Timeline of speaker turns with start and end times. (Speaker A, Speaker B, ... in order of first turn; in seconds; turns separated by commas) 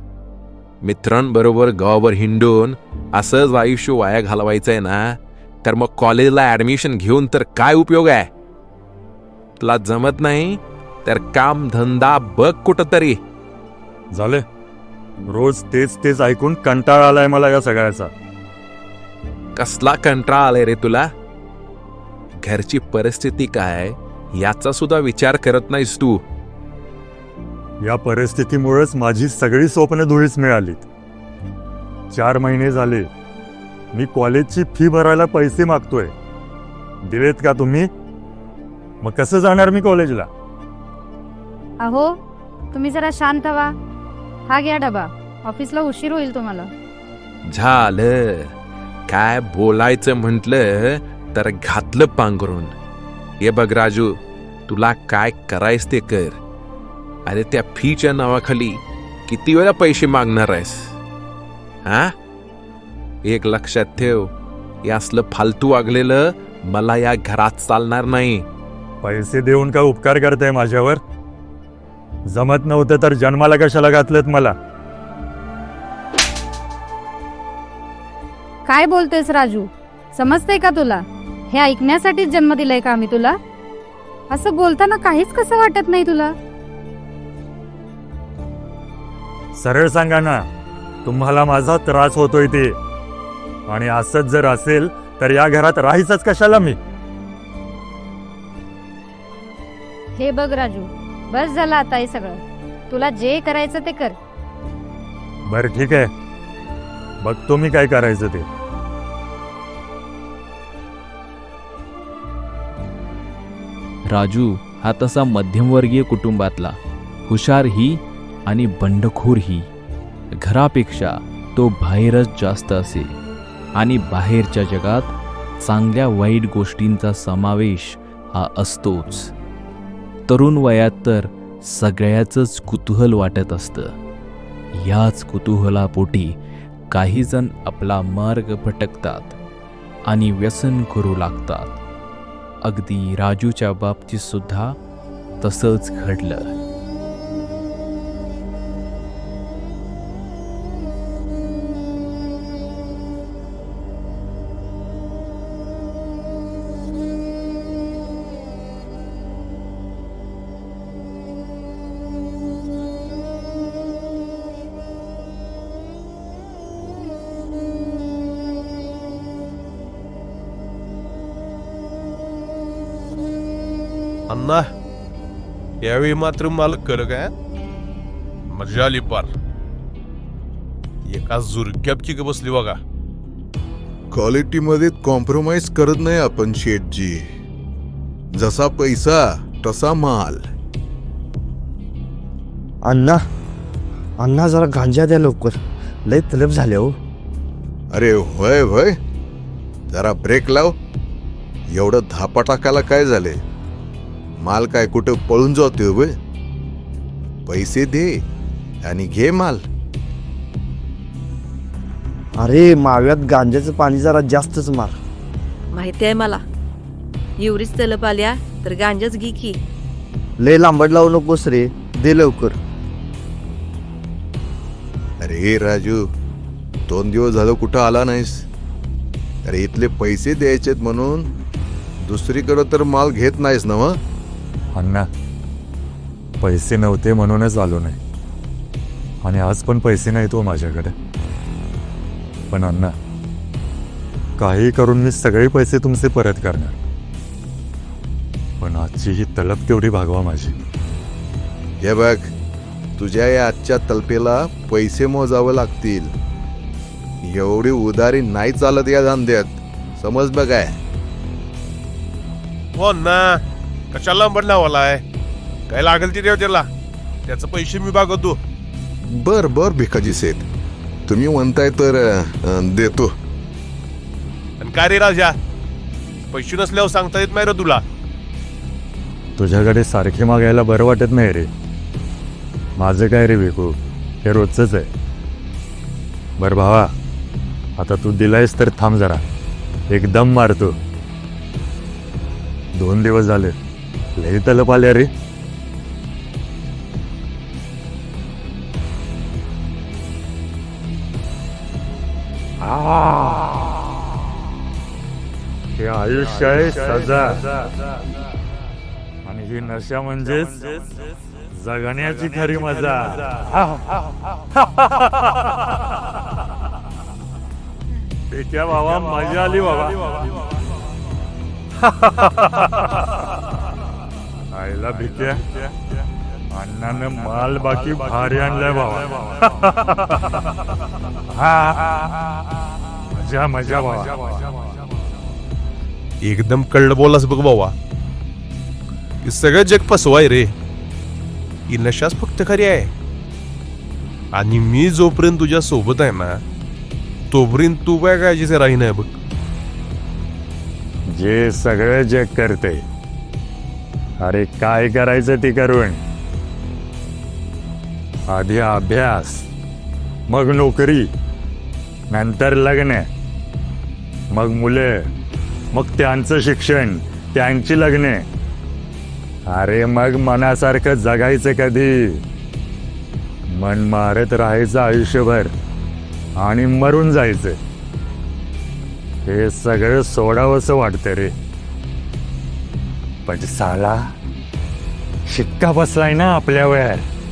Speaker A: 0.8-8.3, Speaker A: 9.6-13.2, Speaker B: 14.1-14.4, Speaker B: 15.2-18.1, Speaker A: 19.6-21.1, Speaker A: 22.4-26.2, Speaker B: 27.8-30.9, Speaker B: 32.1-33.1, Speaker B: 33.9-36.1, Speaker B: 37.1-37.9, Speaker B: 39.0-40.3, Speaker C: 41.8-42.1, Speaker C: 42.7-43.7, Speaker C: 44.5-46.7, Speaker A: 47.5-48.5, Speaker A: 49.1-52.7, Speaker A: 53.4-54.1, Speaker A: 54.7-56.4, Speaker A: 57.2-60.9, Speaker A: 61.8-62.1, Speaker A: 63.2-64.3, Speaker A: 64.8-68.5, Speaker B: 69.0-71.0, Speaker B: 72.3-74.5, Speaker C: 78.7-83.4, Speaker C: 84.3-86.3, Speaker B: 89.5-90.5, Speaker B: 91.0-92.8, Speaker B: 93.7-96.8, Speaker C: 100.2-104.2, Speaker B: 105.5-106.1, Speaker B: 107.2-108.5, Speaker D: 114.1-116.8, Speaker D: 117.3-119.7, Speaker D: 120.4-123.1, Speaker D: 123.8-129.3, Speaker D: 130.3-133.9, Speaker D: 134.7-136.4, Speaker D: 136.9-139.4, Speaker D: 140.1-141.8, Speaker D: 142.6-144.8, Speaker D: 145.4-146.5, Speaker E: 174.3-174.7, Speaker E: 175.8-177.3, Speaker E: 178.5-179.3, Speaker E: 181.1-182.8, Speaker F: 184.1-187.2, Speaker F: 188.3-190.5, Speaker G: 192.9-193.2, Speaker G: 194.2-196.9, Speaker F: 197.9-198.9, Speaker F: 199.9-200.7, Speaker F: 201.7-203.4, Speaker F: 204.4-206.1, Speaker F: 207.5-208.1, Speaker F: 208.8-209.6, Speaker G: 212.4-214.9, Speaker H: 215.7-216.3, Speaker H: 217.4-219.5, Speaker G: 220.4-222.6, Speaker F: 225.2-226.0, Speaker F: 226.9-228.4, Speaker F: 229.4-231.3, Speaker F: 232.0-234.0, Speaker B: 234.8-235.1, Speaker B: 236.4-238.0, Speaker B: 239.2-240.9, Speaker B: 242.5-242.9, Speaker B: 244.4-246.8, Speaker B: 248.6-250.6, Speaker F: 251.8-252.3, Speaker F: 253.0-256.1, Speaker F: 257.2-260.8, Speaker E: 262.8-263.4, Speaker E: 263.9-265.0, Speaker E: 265.7-266.7, Speaker E: 267.3-268.4, Speaker F: 269.1-270.4, Speaker F: 271.1-273.1, Speaker E: 274.6-275.4, Speaker E: 276.3-277.8, Speaker B: 279.4-281.5, Speaker B: 282.8-284.9, Speaker B: 286.4-286.9, Speaker B: 287.8-289.2, Speaker B: 289.9-290.8, Speaker B: 292.8-293.5, Speaker B: 294.2-295.1, Speaker B: 302.7-303.5, Speaker B: 305.8-307.5, Speaker B: 309.2-311.0, Speaker B: 311.5-313.8, Speaker B: 314.6-315.8, Speaker B: 318.3-320.2, Speaker B: 321.9-323.1, Speaker B: 324.5-325.7, Speaker B: 326.5-330.5, Speaker B: 331.3-331.9, Speaker B: 333.1-334.5, Speaker E: 336.2-337.7, Speaker E: 339.2-340.5, Speaker E: 341.7-342.9, Speaker E: 344.3-346.4, Speaker E: 347.3-349.1, Speaker B: 351.1-352.8, Speaker B: 354.2-356.0, Speaker B: 358.3-359.5, Speaker B: 360.3-361.1, Speaker B: 362.1-363.1, Speaker B: 364.3-365.1, Speaker B: 365.7-368.2, Speaker B: 369.5-372.2, Speaker B: 373.5-375.5, Speaker B: 376.4-377.6, Speaker B: 379.2-381.3, Speaker B: 383.2-384.0, Speaker B: 385.2-387.1